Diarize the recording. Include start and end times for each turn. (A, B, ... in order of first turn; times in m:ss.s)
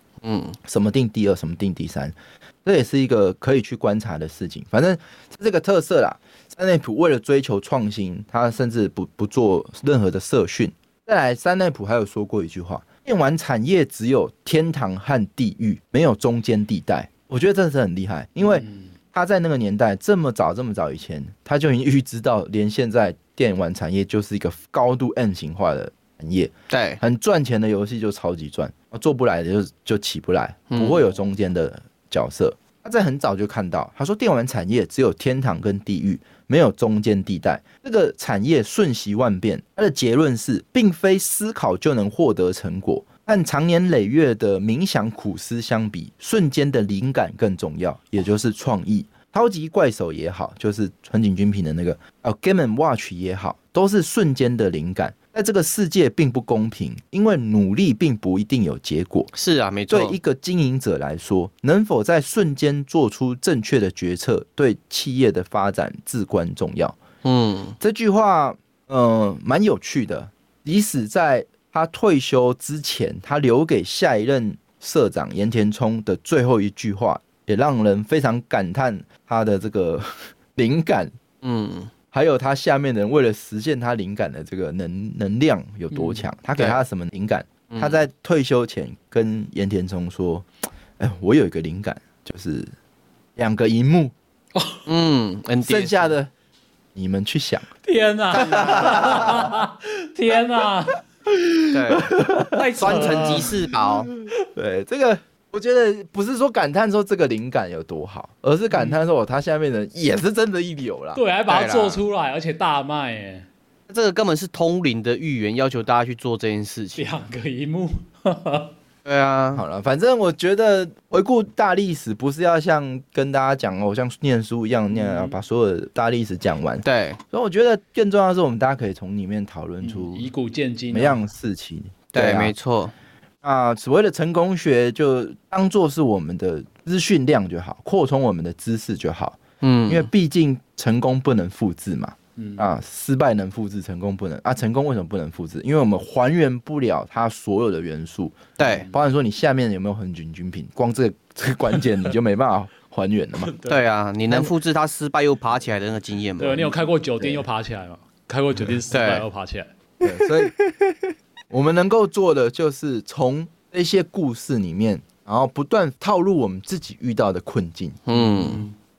0:00.2-0:00.6 A
0:00.6-0:59.3 B
0:18.4-0:18.9 C
0:26.7-0:27.0 A
0:30.7-0:31.0 A
0:59.3-1:00.2 A
0:59.9-1:07.0 B
1:07.2-1:07.8 A
1:07.8-1:21.2 B
1:21.4-1:21.9 A
1:22.1-1:30.5 B
1:25.9-1:26.2 C
1:26.6-1:26.8 A
1:27.7-1:28.0 A
1:31.0-1:32.7 B
1:33.4-1:34.1 B
1:34.8-1:36.1 A
1:35.6-1:36.3 B
1:36.9-1:37.7 B
1:37.8-1:41.0 C
1:38.3-1:39.6 B
1:38.4-1:38.9 A
1:41.3-1:43.4 B
1:41.7-1:42.2 A
1:42.5-1:43.6 C
1:42.8-1:44.1 A
1:44.2-1:51.2 B
1:48.7-1:49.0 C
1:51.2-1:53.5 C
1:51.5-1:52.0 A
1:53.9-1:57.1 A
1:57.0-1:58.7 C
1:59.0-1:59.6 A
1:59.5-2:10.3 B
2:04.9-2:05.4 C
2:06.8-2:07.2 A
2:09.8-2:11.2 C
2:10.9-2:12.5 B
2:12.1-2:12.9 A
2:13.4-2:33.5 B
2:19.6-2:20.1 A
2:22.4-2:22.6 C
2:28.6-2:28.9 A
2:28.6-2:29.0 C
2:33.4-2:33.8 C
2:33.6-2:36.8 A
2:36.4-2:39.7 C
2:38.9-2:39.2 A
2:40.0-2:40.5 B
2:40.6-2:40.9 A
2:41.5-2:48.0 B
2:48.0-2:48.6 A
2:48.1-2:48.7 C